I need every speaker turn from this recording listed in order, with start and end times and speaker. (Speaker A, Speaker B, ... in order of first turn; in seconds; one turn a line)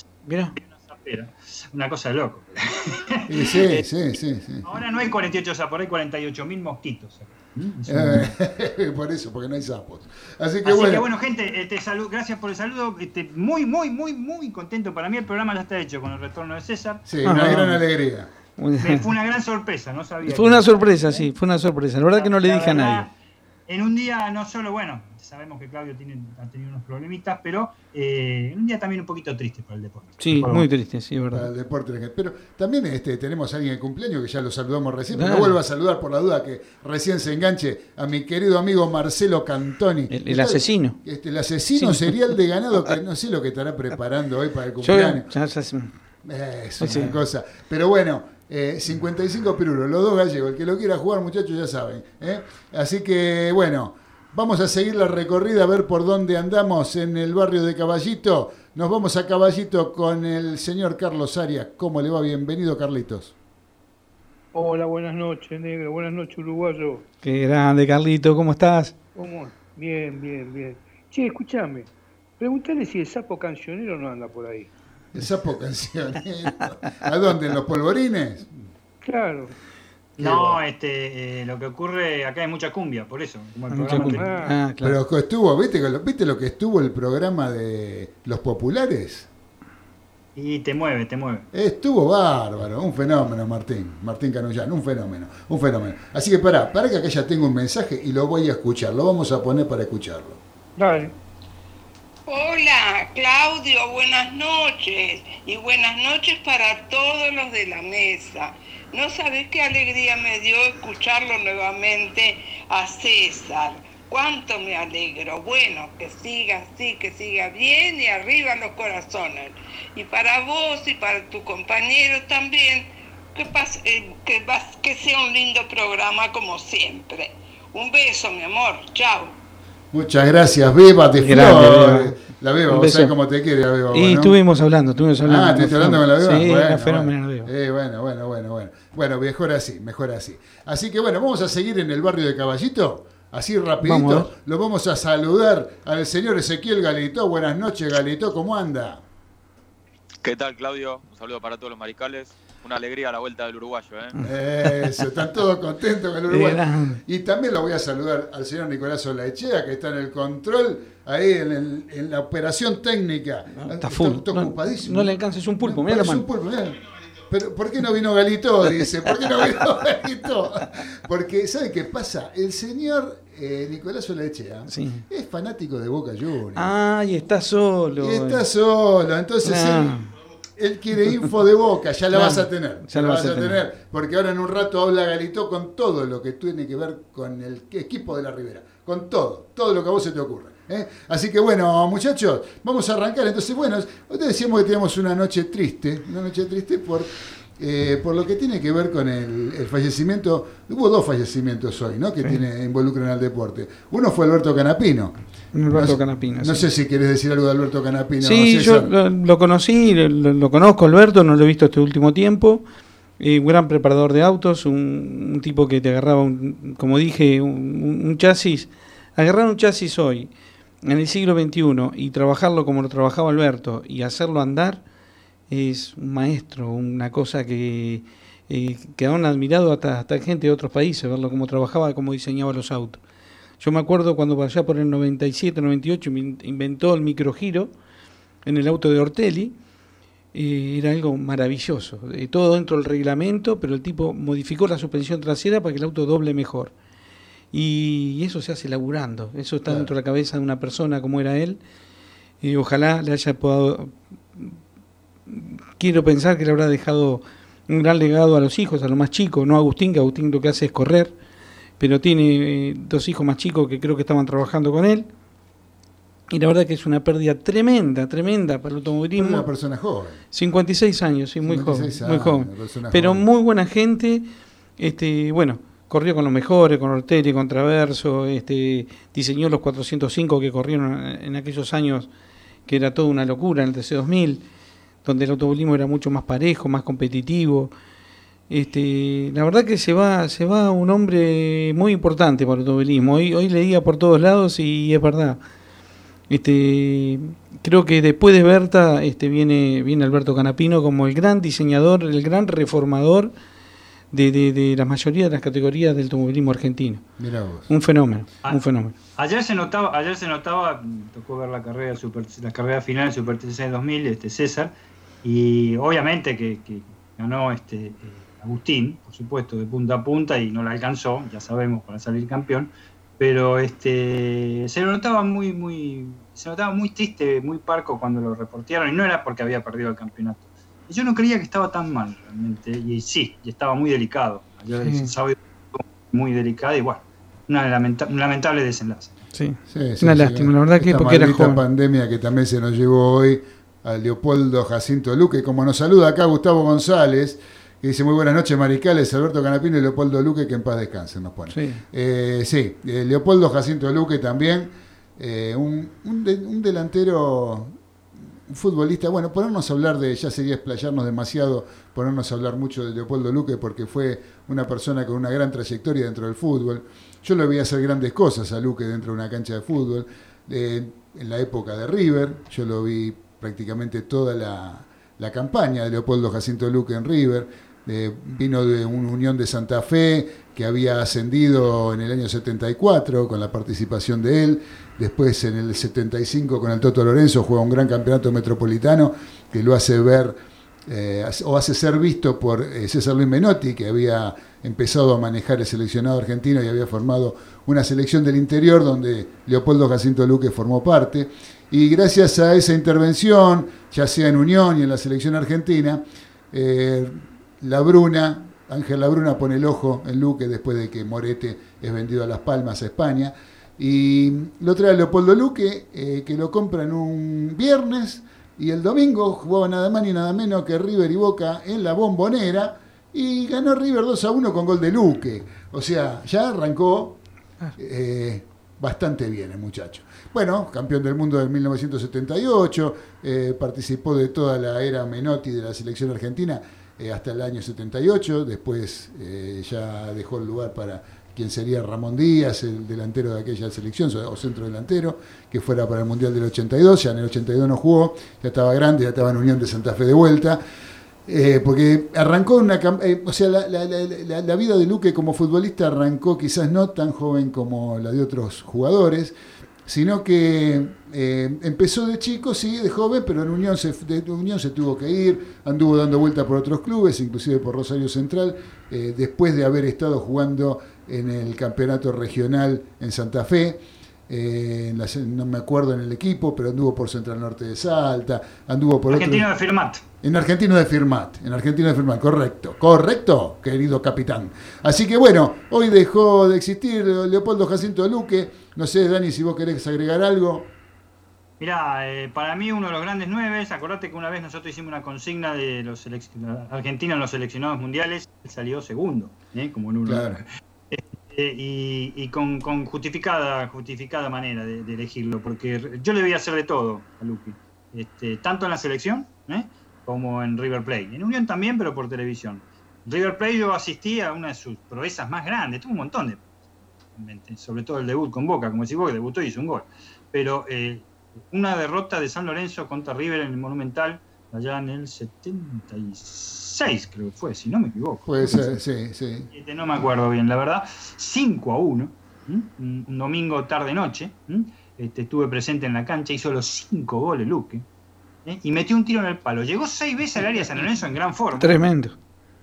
Speaker A: 0.2-0.6
Speaker B: 0.6-3.9
Speaker C: 3.3-4.7
Speaker B: 4.6-8.3
Speaker C: 7.9-11.1
Speaker B: 10.7-17.6
Speaker C: 17.1-18.3
Speaker A: 17.2-17.8
Speaker A: 18.6-19.1
Speaker B: 18.8-21.3
Speaker A: 20.2-23.1
Speaker B: 22.1-23.1
Speaker B: 23.7-30.7
Speaker A: 30.2-31.5
Speaker C: 31.3-45.3
Speaker A: 35.1-35.6
Speaker A: 40.1-41.0
Speaker A: 41.8-42.2
Speaker A: 44.8-45.9
Speaker C: 46.2-63.4
Speaker A: 46.8-47.2
Speaker D: 64.5-67.1
Speaker A: 67.2-68.9
Speaker D: 69.2-74.7
Speaker C: 75.1-78.6
Speaker D: 79.0-79.6
Speaker B: 80.2-84.5
Speaker C: 80.2-80.6
Speaker A: 83.7-85.0
Speaker D: 83.9-84.6
Speaker C: 84.8-89.3
Speaker B: 90.4-91.5
Speaker C: 91.5-100.4
Speaker D: 100.8-101.2
Speaker E: 102.3-129.4
Speaker C: 129.9-134.4
Speaker A: 131.2-132.2
Speaker A: 132.7-133.1
Speaker A: 133.9-137.5
Speaker C: 135.2-149.0
Speaker A: 143.8-144.3
Speaker F: 150.2-154.2
Speaker A: 154.2-155.0
Speaker C: 154.2-176.7
Speaker A: 156.3-157.0
Speaker A: 163.6-166.2
Speaker A: 174.7-175.0
Speaker A: 176.6-178.4
Speaker C: 178.0-180.0
Speaker A: 179.4-180.1
Speaker C: 180.6-205.2
Speaker A: 182.1-183.6
Speaker A: 205.5-206.7
Speaker C: 205.7-208.9
Speaker A: 208.2-212.7
Speaker A: 213.2-220.3
Speaker A: 220.8-224.8
Speaker A: 225.5-233.0
Speaker A: 233.6-237.7
Speaker A: 238.4-239.6
Speaker A: 240.3-246.7
Speaker A: 247.5-251.6
Speaker C: 249.7-249.9
Speaker A: 252.4-254.6
Speaker A: 255.3-261.1
Speaker A: 261.8-265.1
Speaker A: 266.3-269.5
Speaker C: 269.1-270.2
Speaker A: 270.3-282.1
Speaker C: 271.4-273.2
Speaker A: 282.7-284.4
Speaker A: 285.0-287.7
Speaker A: 288.5-295.4
Speaker A: 296.3-303.3
Speaker A: 304.1-307.1
Speaker C: 307.2-307.7
Speaker A: 307.7-308.9
Speaker B: 309.2-314.7
Speaker B: 315.2-339.2
Speaker A: 334.8-335.1
Speaker A: 339.4-341.6
Speaker C: 339.7-357.8
Speaker A: 351.5-351.8
Speaker C: 358.4-427.2
Speaker C: 427.8-450.6
Speaker C: 451.3-459.4
Speaker C: 459.9-479.5
Speaker B: 479.1-480.0
Speaker C: 480.2-490.7
Speaker B: 491.6-516.4
Speaker C: 500.1-500.4
Speaker B: 517.2-528.8
Speaker C: 528.3-529.5
Speaker B: 529.5-537.9
Speaker B: 538.5-541.8
Speaker A: 541.6-542.2